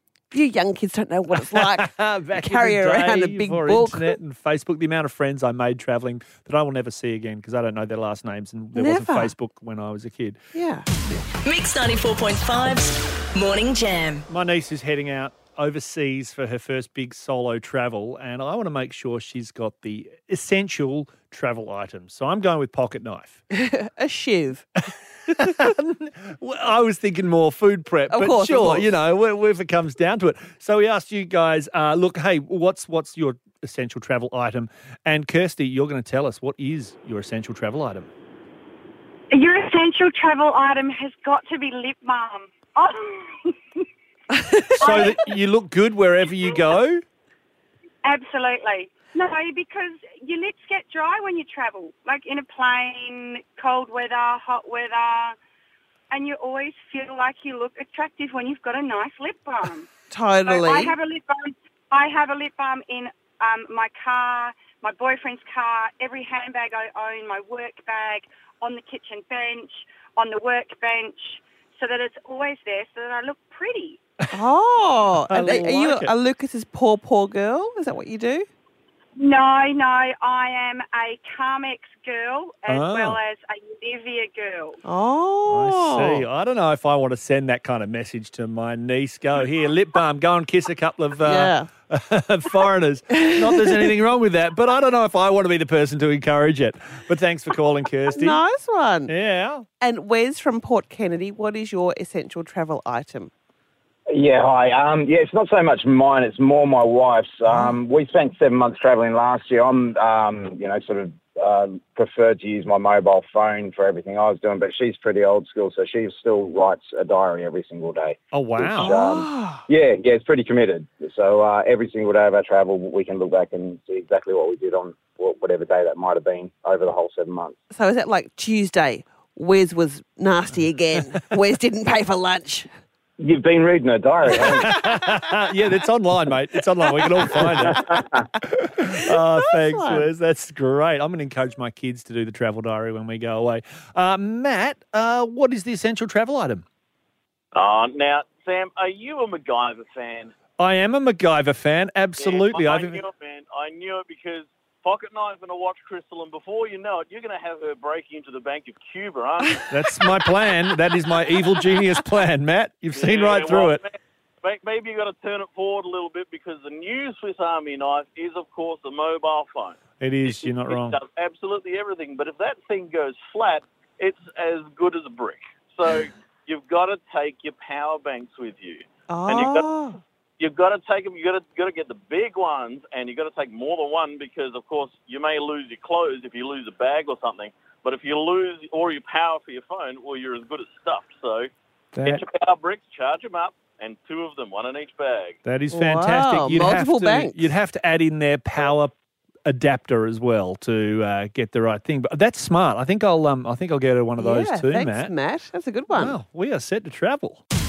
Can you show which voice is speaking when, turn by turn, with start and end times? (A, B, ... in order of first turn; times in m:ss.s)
0:00.3-0:04.2 A
0:01.3-0:10.4 B
0:08.7-0:09.3 A
0:10.5-0:10.9 A
0:11.4-0:14.2 C
0:14.3-0:23.4 B
0:23.5-0:24.7 A
0:25.3-0:38.1 B
0:28.1-0:28.9 A
0:39.3-0:43.8 D
0:44.3-0:45.0 A
0:44.8-0:47.0 B
0:44.8-0:45.2 D
0:48.0-0:55.4 D
0:56.1-0:59.9 D
1:00.1-1:01.0 A
1:00.4-1:14.0 D
1:14.3-1:18.5 A
1:15.3-1:16.1 B
1:19.2-1:24.8 D
1:22.7-1:23.2 B
1:24.8-1:26.2 A
1:25.5-1:38.4 B
1:31.2-1:31.7 A
1:33.1-1:33.9 A
1:38.1-1:39.1 A
1:39.1-1:39.6 B
1:39.8-1:43.3 A
1:44.1-2:07.6 E
1:58.3-1:58.9 B
1:58.8-1:59.6 A
2:07.7-2:12.7 A
2:13.2-2:14.7 E
2:14.3-2:17.8 B
2:14.3-2:15.1 A
2:17.0-2:18.0 A
2:17.4-2:18.1 E
2:18.4-2:26.6 B
2:18.9-2:20.1 A
2:27.5-2:30.3 F
2:30.6-2:33.0 B
2:32.2-2:39.8 F
2:39.7-2:43.8 B
2:42.9-2:59.7 F
2:50.0-2:51.0 B
2:59.1-3:00.0 A
3:00.4-3:15.4 F
3:12.0-3:12.2 B
3:15.4-3:18.9 B
3:15.7-3:17.5 A
3:19.4-3:25.1 B
3:24.2-3:26.2 A
3:25.9-3:27.4 B